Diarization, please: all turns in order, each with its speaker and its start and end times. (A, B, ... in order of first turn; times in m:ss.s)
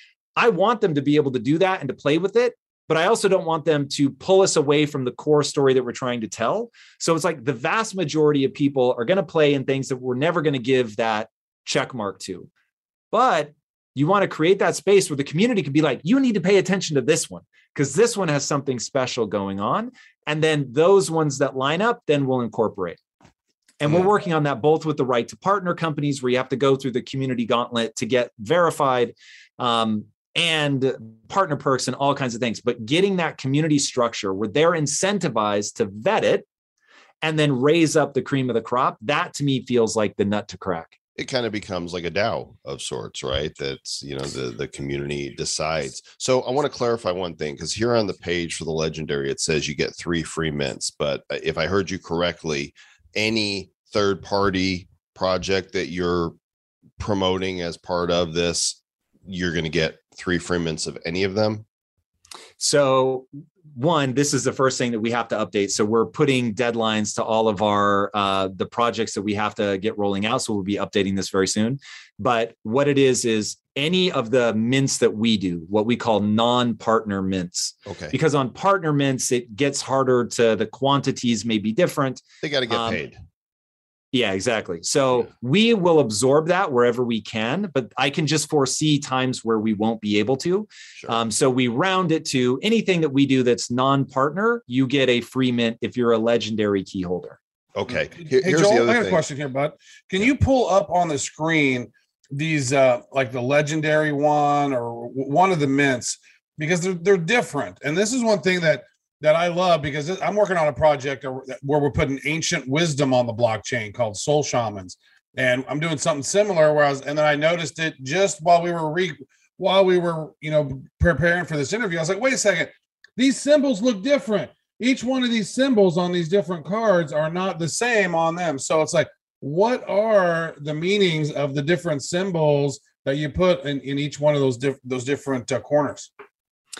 0:00.4-0:12.5 A
0:13.1-0:23.0 A
0:23.8-0:36.4 A
0:37.2-0:40.9 A
0:41.2-0:56.3 B
0:57.0-1:01.6 B
1:02.6-1:23.0 A
1:17.8-1:18.1 B
1:22.4-1:23.2 B
1:24.1-1:37.4 A
1:37.8-1:39.2 B
1:38.3-2:16.1 C